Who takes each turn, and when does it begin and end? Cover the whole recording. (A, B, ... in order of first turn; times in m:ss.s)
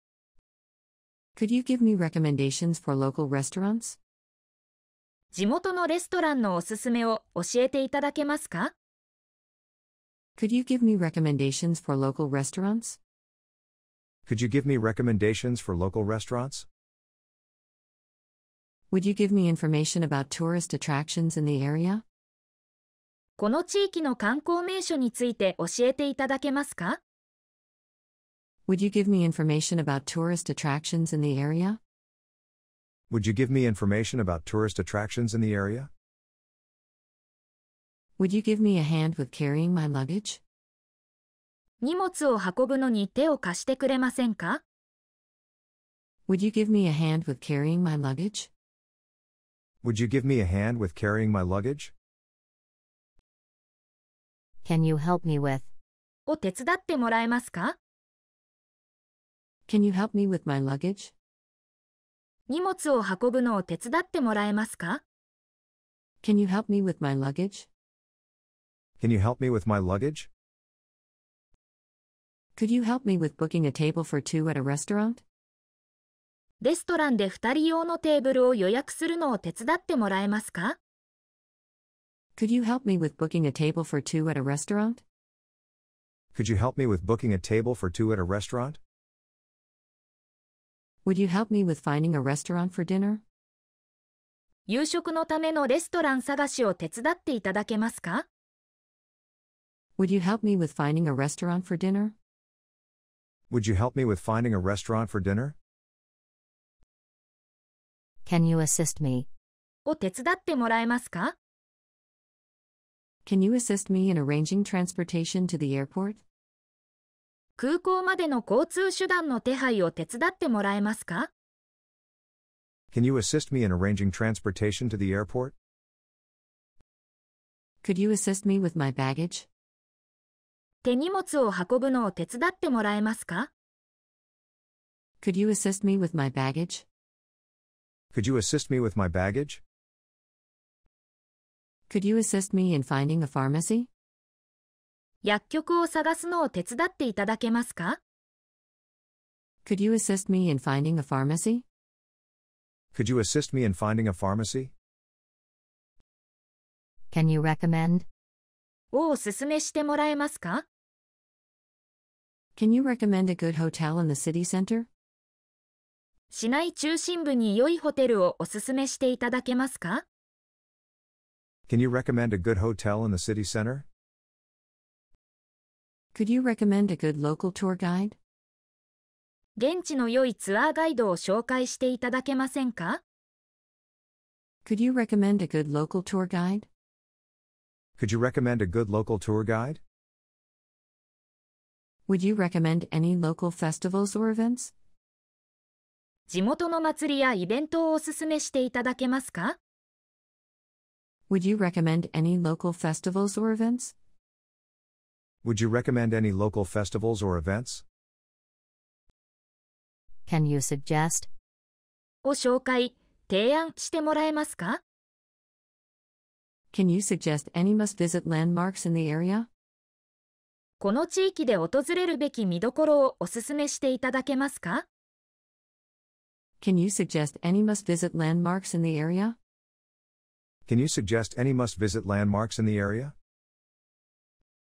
0:01.4-0:04.0 A
0:05.3-0:08.7 B
0:10.4-0:13.0 A
0:14.3-0:16.6 C
0:18.9-0:22.0 A
0:23.4-0:27.0 B
0:28.7-0:31.8 A
0:33.1-0:35.9 C
0:38.2-0:40.4 A
0:41.8-0:44.6 B
0:46.3-0:48.5 A
0:49.8-0:51.9 C
0:54.6-0:55.7 D
0:56.3-0:57.8 B
0:59.7-1:01.1 A
1:02.5-1:05.0 B
1:06.2-1:07.7 A
1:09.0-1:10.3 C
1:12.6-1:15.2 A
1:16.6-1:20.8 B
1:22.4-1:25.0 A
1:26.3-1:28.8 C
1:31.0-1:33.2 A
1:34.7-1:38.2 B
1:40.0-1:42.1 A
1:43.5-1:45.5 C
1:48.2-1:49.3 D
1:49.8-1:51.3 B
1:53.2-1:56.2 A
1:57.6-2:01.3 B
2:02.9-2:05.5 C
2:07.8-2:09.5 A
2:10.8-2:13.5 B
2:15.2-2:16.8 A
2:18.1-2:19.6 C
2:21.9-2:23.9 A
2:25.2-2:28.0 B
2:29.6-2:31.6 A
2:32.9-2:34.7 C
2:37.1-2:38.0 D
2:38.9-2:40.6 B
2:42.6-2:44.9 A
2:46.3-2:50.0 B
2:51.7-2:53.8 C
2:56.1-2:58.2 A
2:59.6-3:03.0 B
3:04.6-3:06.7 A
3:08.0-3:09.8 C
3:12.1-3:14.7 A
3:16.3-3:19.6 B
3:21.3-3:23.9 A
3:25.4-3:27.8 C
3:30.2-3:31.3 D
3:32.2-3:34.8 B
3:36.7-3:39.5 A
3:40.8-3:44.8 B
3:46.6-3:49.4 A
3:50.7-3:53.1 C